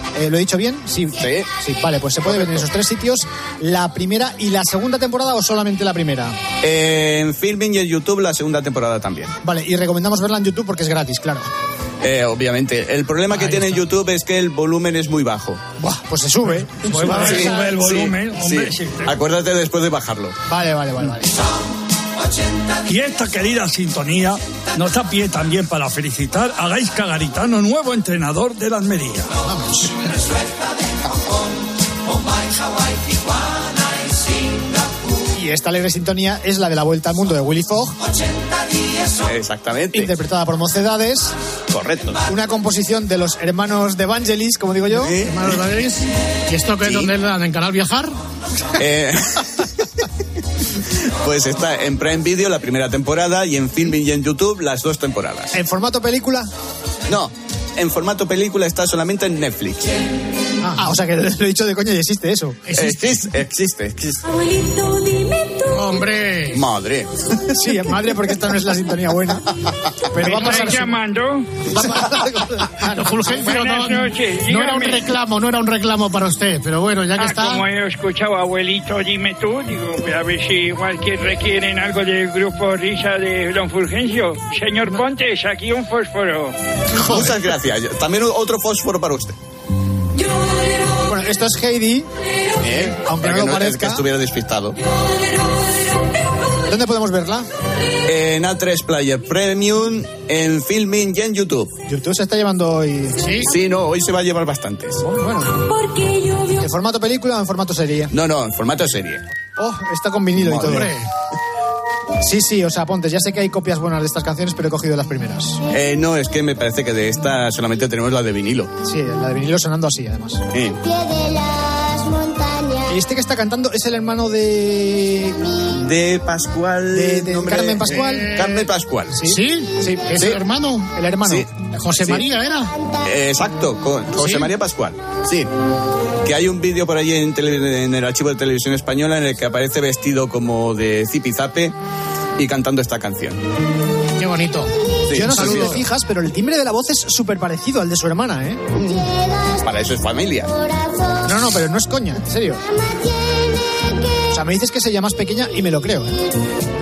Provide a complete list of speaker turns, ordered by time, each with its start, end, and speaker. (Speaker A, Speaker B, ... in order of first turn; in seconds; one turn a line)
Speaker A: 0.1-6.4
Speaker B: 1.2-1.5
Speaker B: 2.3-2.6
Speaker B: 6.6-9.3
Speaker A: 9.4-11.5
Speaker B: 12.0-15.6
Speaker A: 15.8-17.6
Speaker C: 16.8-19.1
Speaker D: 16.9-17.4
Speaker B: 17.1-20.3
Speaker A: 20.5-21.4
Speaker C: 22.9-29.3
Speaker D: 29.4-30.0
Speaker A: 35.3-38.0
Speaker B: 39.2-40.1
Speaker A: 39.9-41.3
Speaker B: 41.7-42.2
Speaker A: 42.3-45.1
Speaker B: 44.9-45.5
Speaker D: 45.2-48.1
Speaker B: 46.8-47.1
Speaker B: 48.8-49.5
Speaker B: 51.2-55.5
Speaker A: 55.5-56.5
Speaker B: 57.1-60.0
Speaker A: 60.7-62.6
Speaker D: 62.7-63.2
Speaker B: 62.7-64.2
Speaker E: 64.2-66.0
Speaker D: 65.7-66.6
Speaker B: 66.5-67.5
Speaker A: 67.5-69.4
Speaker A: 70.1-70.9
Speaker D: 70.2-70.8
Speaker F: 70.3-71.6
Speaker A: 71.7-73.3
Speaker D: 72.8-77.6
Speaker F: 73.4-75.1
Speaker F: 77.1-86.5
Speaker D: 87.0-87.3
Speaker B: 87.0-89.3
Speaker A: 91.0-92.1
Speaker B: 92.6-94.8
Speaker A: 92.6-94.0
Speaker A: 96.7-97.5
Speaker B: 98.0-101.7
Speaker A: 101.9-103.3
Speaker D: 103.2-103.5
Speaker B: 103.5-105.0
Speaker A: 105.0-105.6
Speaker E: 105.7-106.7
Speaker A: 106.6-108.1
Speaker B: 108.1-109.2
Speaker A: 109.6-110.9
Speaker B: 110.4-110.9
Speaker D: 110.6-111.1
Speaker A: 112.2-115.6
Speaker B: 115.7-118.7
Speaker A: 118.8-120.4
Speaker B: 120.5-120.8
Speaker A: 122.8-125.4
Speaker B: 125.7-129.2
Speaker A: 126.9-128.4
Speaker D: 128.0-128.5
Speaker A: 129.1-130.3
Speaker D: 129.2-130.9
Speaker A: 130.9-131.5
Speaker D: 131.7-132.7
Speaker B: 132.0-132.2
Speaker B: 133.0-135.5
Speaker D: 134.2-134.5
Speaker B: 136.2-141.7
Speaker B: 142.4-143.4
Speaker D: 144.2-145.8
Speaker B: 145.1-145.8
Speaker A: 145.1-148.8
Speaker B: 149.6-150.5
Speaker A: 151.2-152.6
Speaker A: 154.3-156.2